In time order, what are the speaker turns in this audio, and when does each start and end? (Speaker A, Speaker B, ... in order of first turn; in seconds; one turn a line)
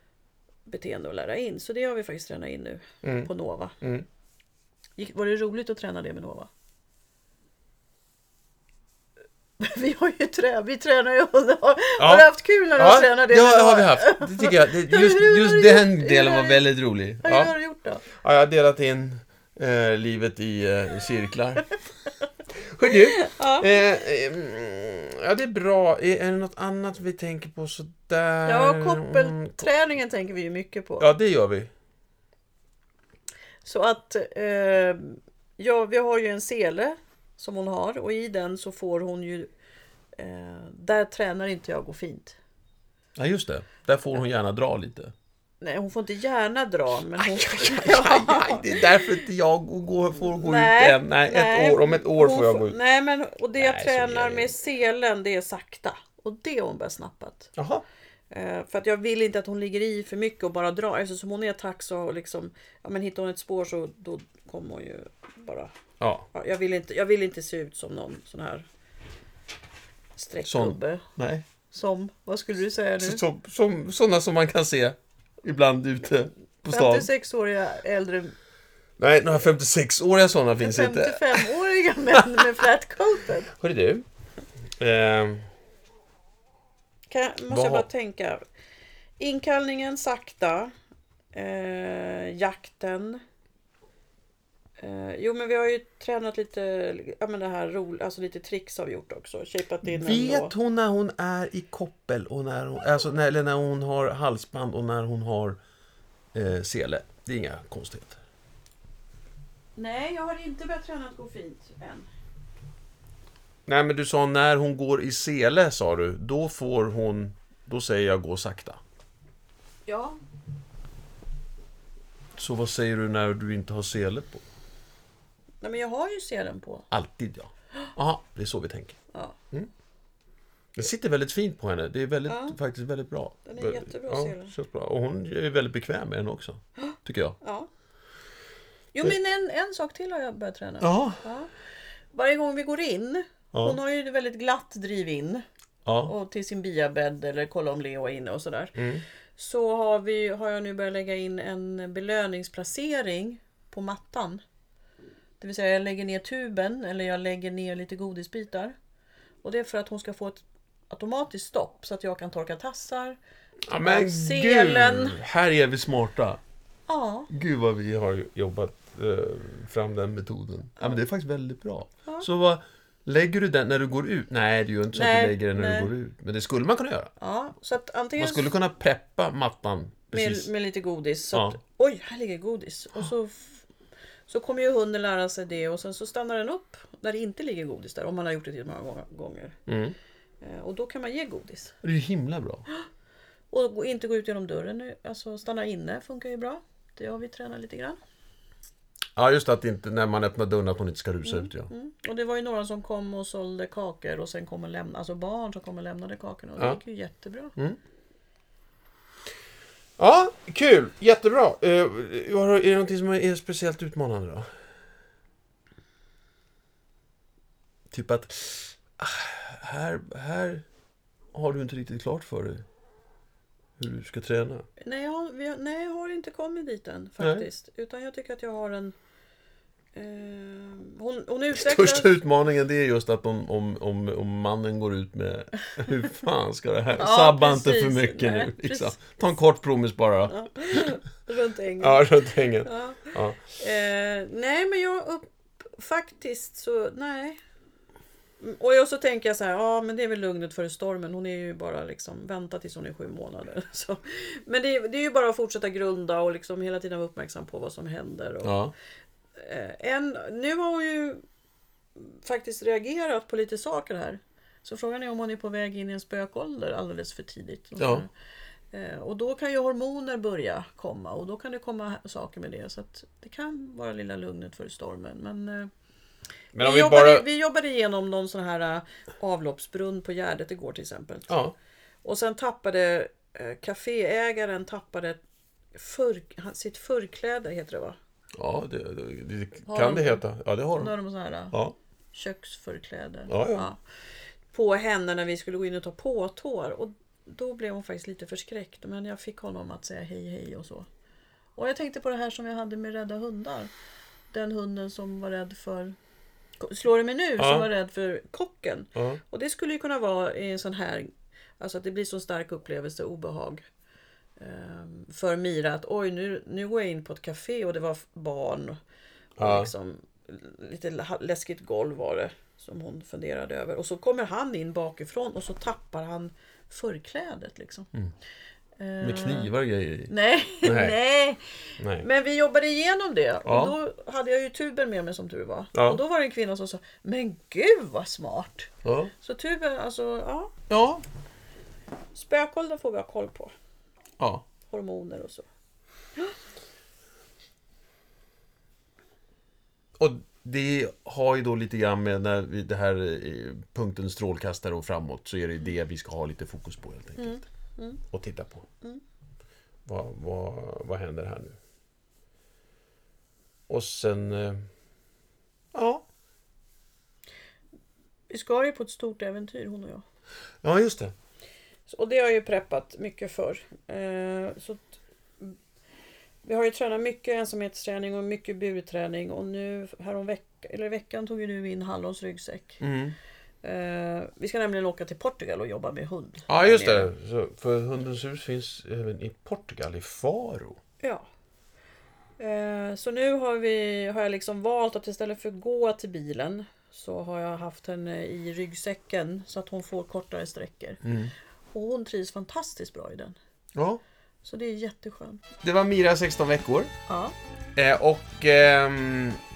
Speaker A: 0.7-3.8
Speaker B: 3.0-3.3
Speaker B: 3.8-4.1
Speaker A: 5.0-6.5
Speaker A: 9.6-16.6
Speaker B: 12.0-17.5
Speaker A: 17.2-18.0
Speaker B: 18.1-21.8
Speaker B: 22.6-29.7
Speaker A: 22.9-23.7
Speaker A: 28.4-31.1
Speaker B: 31.0-31.7
Speaker A: 33.6-39.5
Speaker A: 40.2-42.4
Speaker B: 43.2-45.1
Speaker A: 45.6-49.0
Speaker B: 47.2-52.8
Speaker A: 50.3-57.5
Speaker B: 53.6-54.6
Speaker B: 57.6-57.8
Speaker A: 58.3-65.7
Speaker B: 66.0-66.3
Speaker A: 66.3-68.7
Speaker A: 70.2-71.0
Speaker B: 70.5-71.5
Speaker A: 71.7-73.2
Speaker B: 73.0-77.1
Speaker A: 76.7-78.3
Speaker B: 79.0-81.5
Speaker A: 80.6-83.5
Speaker B: 82.1-82.5
Speaker B: 83.5-84.0
Speaker B: 84.8-85.5
Speaker A: 87.1-88.4
Speaker B: 87.5-87.9
Speaker A: 89.2-90.7
Speaker A: 91.3-93.2
Speaker A: 94.8-100.5
Speaker B: 99.8-105.6
Speaker B: 106.3-108.2
Speaker A: 109.8-112.1
Speaker B: 113.7-118.8
Speaker A: 119.9-120.2
Speaker B: 122.4-124.4
Speaker A: 125.6-126.9
Speaker B: 126.9-129.0
Speaker B: 130.8-137.4
Speaker A: 132.3-132.6
Speaker A: 133.5-134.5
Speaker A: 136.8-137.7
Speaker A: 138.9-141.5
Speaker B: 140.8-141.2
Speaker A: 142.1-145.4
Speaker B: 143.5-143.8
Speaker B: 145.9-146.1
Speaker A: 146.0-148.8
Speaker B: 148.8-149.1
Speaker A: 149.4-154.4
Speaker A: 155.4-158.7
Speaker A: 159.4-163.2
Speaker B: 163.7-166.4
Speaker A: 163.8-165.2
Speaker A: 166.9-167.3
Speaker B: 167.3-177.1
Speaker A: 174.9-175.9
Speaker A: 177.2-178.5
Speaker B: 178.2-180.5
Speaker A: 180.1-183.6
Speaker B: 181.3-181.6
Speaker A: 184.3-189.6
Speaker B: 189.7-189.9
Speaker A: 190.4-191.8
Speaker B: 191.8-192.7
Speaker A: 193.5-198.0
Speaker B: 199.2-201.7
Speaker A: 201.2-207.5
Speaker B: 210.0-214.5
Speaker B: 217.9-220.7
Speaker B: 221.3-222.7
Speaker B: 223.8-224.7
Speaker A: 224.8-228.9
Speaker B: 227.2-227.5
Speaker A: 229.9-232.2
Speaker B: 231.5-240.9
Speaker A: 236.9-239.0
Speaker A: 240.3-242.1
Speaker B: 241.8-243.4
Speaker A: 242.6-247.4
Speaker A: 248.4-258.6
Speaker B: 258.4-258.7
Speaker A: 259.4-261.2
Speaker A: 262.0-268.1
Speaker B: 267.8-268.1
Speaker A: 268.7-275.7
Speaker B: 276.5-277.3
Speaker A: 276.6-281.3
Speaker B: 281.3-281.5
Speaker A: 282.0-285.2
Speaker A: 285.7-288.0
Speaker B: 288.4-290.9
Speaker A: 289.7-290.2
Speaker A: 290.8-291.5
Speaker A: 292.1-293.8
Speaker B: 293.3-293.7
Speaker A: 294.5-300.9
Speaker A: 301.6-303.7
Speaker A: 304.3-306.0
Speaker A: 306.6-313.6
Speaker B: 307.4-307.7
Speaker B: 308.9-309.2
Speaker A: 314.4-318.8
Speaker B: 319.4-319.7
Speaker A: 319.4-327.9
Speaker A: 328.8-329.5
Speaker B: 329.0-331.0
Speaker A: 330.1-340.5
Speaker B: 331.8-332.1
Speaker B: 333.4-333.8
Speaker B: 335.7-336.0
Speaker B: 338.8-339.1
Speaker B: 340.7-341.0
Speaker A: 342.1-343.5
Speaker B: 344.2-344.4
Speaker A: 344.7-345.5
Speaker B: 350.0-357.5
Speaker A: 357.2-358.0
Speaker B: 358.1-358.7
Speaker B: 359.9-361.6
Speaker B: 363.7-364.7
Speaker B: 365.7-366.0
Speaker A: 368.3-370.0
Speaker B: 370.6-371.1
Speaker A: 371.9-375.6
Speaker A: 376.4-382.8
Speaker B: 382.8-383.1
Speaker A: 383.6-387.1
Speaker B: 386.5-390.8
Speaker A: 392.4-401.0
Speaker B: 401.0-401.3
Speaker A: 401.7-403.4
Speaker B: 403.8-404.0
Speaker A: 404.4-405.4
Speaker B: 405.6-406.9
Speaker A: 407.1-407.4
Speaker B: 407.8-409.4